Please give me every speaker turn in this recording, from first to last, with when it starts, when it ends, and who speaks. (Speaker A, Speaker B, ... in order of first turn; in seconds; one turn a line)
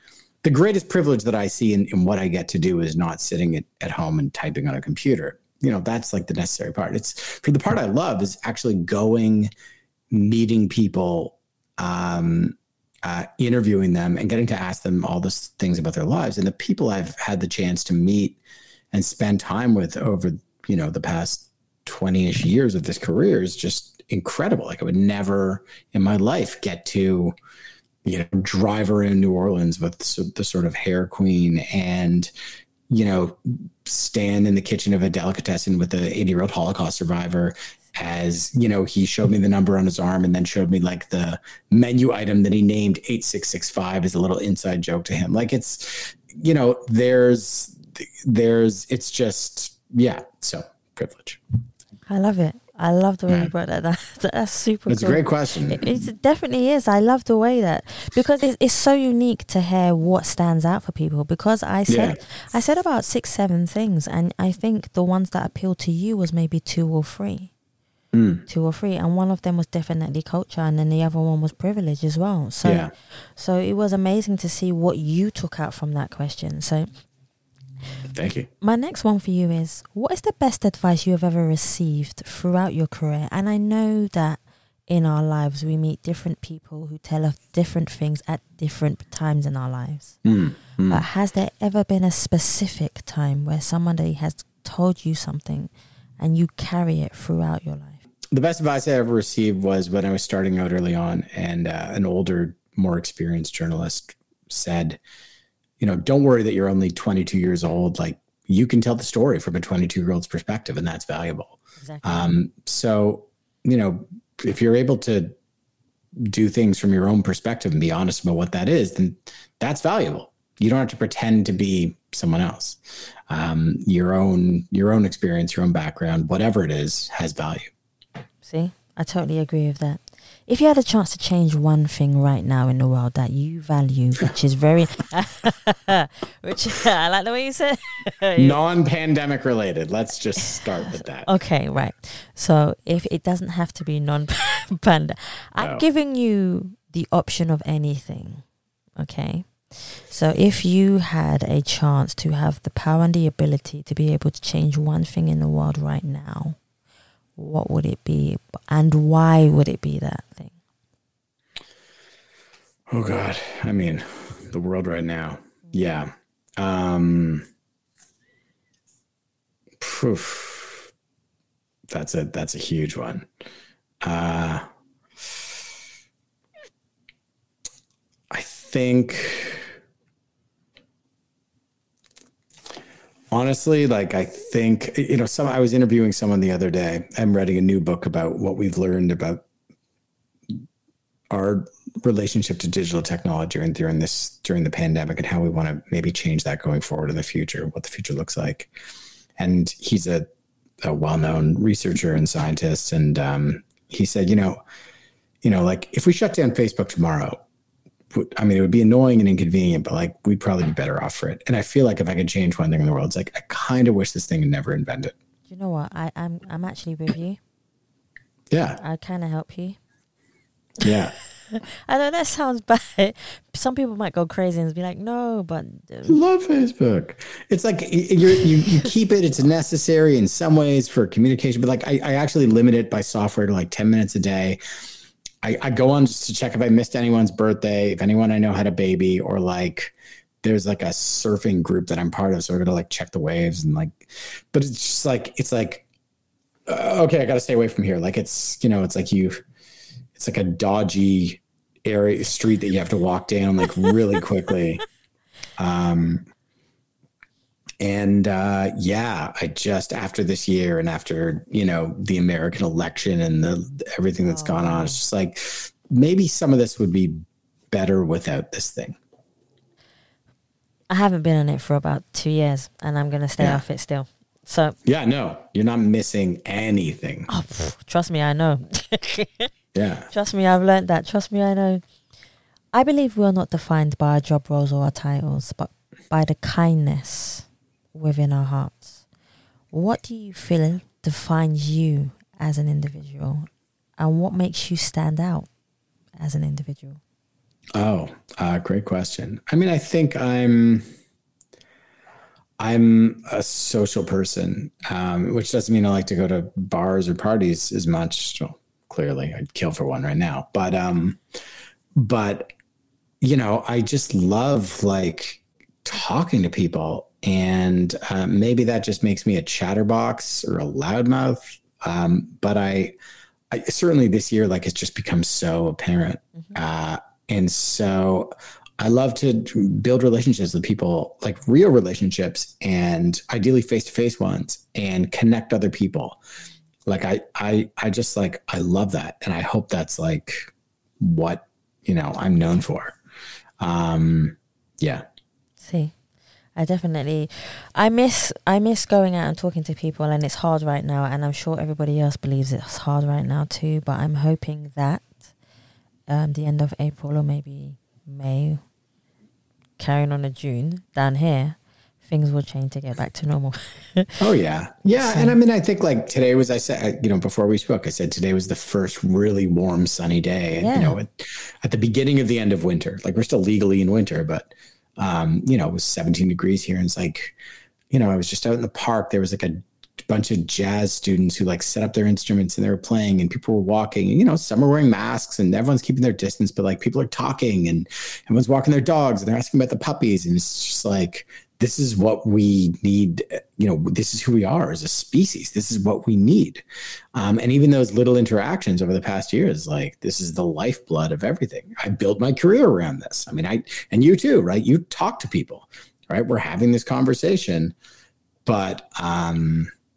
Speaker A: 0.4-9.5
Speaker A: 10.1-18.4
Speaker A: 18.9-27.3
Speaker A: 28.0-32.3
Speaker A: 32.9-51.4
Speaker B: 52.1-67.5
Speaker A: 54.9-56.0
Speaker A: 61.9-62.2
Speaker A: 68.1-68.4
Speaker B: 68.5-76.9
Speaker A: 72.6-72.9
Speaker A: 78.1-78.5
Speaker B: 78.6-90.2
Speaker A: 90.2-91.0
Speaker B: 90.9-98.0
Speaker A: 98.3-105.0
Speaker A: 105.8-115.3
Speaker B: 111.8-112.3
Speaker A: 116.2-127.7
Speaker B: 128.4-138.6
Speaker A: 138.4-141.3
Speaker B: 141.2-148.4
Speaker A: 145.6-145.9
Speaker B: 149.0-156.6
Speaker B: 157.4-160.6
Speaker A: 162.9-167.5
Speaker A: 169.8-170.9
Speaker A: 171.9-173.3
Speaker A: 174.0-174.7
Speaker A: 178.3-179.7
Speaker A: 183.3-189.4
Speaker A: 191.3-198.7
Speaker A: 199.4-200.3
Speaker A: 200.8-204.6
Speaker A: 205.4-207.4
Speaker A: 208.1-215.1
Speaker B: 215.5-217.4
Speaker A: 218.5-218.8
Speaker B: 218.8-219.8
Speaker A: 220.8-221.1
Speaker B: 221.5-226.2
Speaker A: 226.1-234.6
Speaker A: 235.4-245.8
Speaker A: 246.7-249.4
Speaker A: 250.2-254.8
Speaker A: 255.6-256.3
Speaker A: 257.8-269.0
Speaker B: 264.2-265.0
Speaker B: 270.9-274.8
Speaker A: 274.9-277.3
Speaker B: 277.3-279.5
Speaker A: 279.7-280.1
Speaker B: 280.1-281.8
Speaker B: 282.7-289.0
Speaker B: 289.7-295.5
Speaker B: 296.2-297.0
Speaker A: 297.8-300.9
Speaker A: 302.6-311.2
Speaker A: 311.9-312.5
Speaker A: 313.2-323.0
Speaker A: 323.5-336.2
Speaker A: 336.9-343.0
Speaker A: 343.6-345.1
Speaker B: 345.6-345.9
Speaker B: 346.6-355.2
Speaker B: 356.1-358.6
Speaker B: 359.8-364.2
Speaker A: 364.2-377.4
Speaker B: 364.9-365.4
Speaker B: 370.6-371.0
Speaker A: 377.9-407.8
Speaker A: 408.5-409.7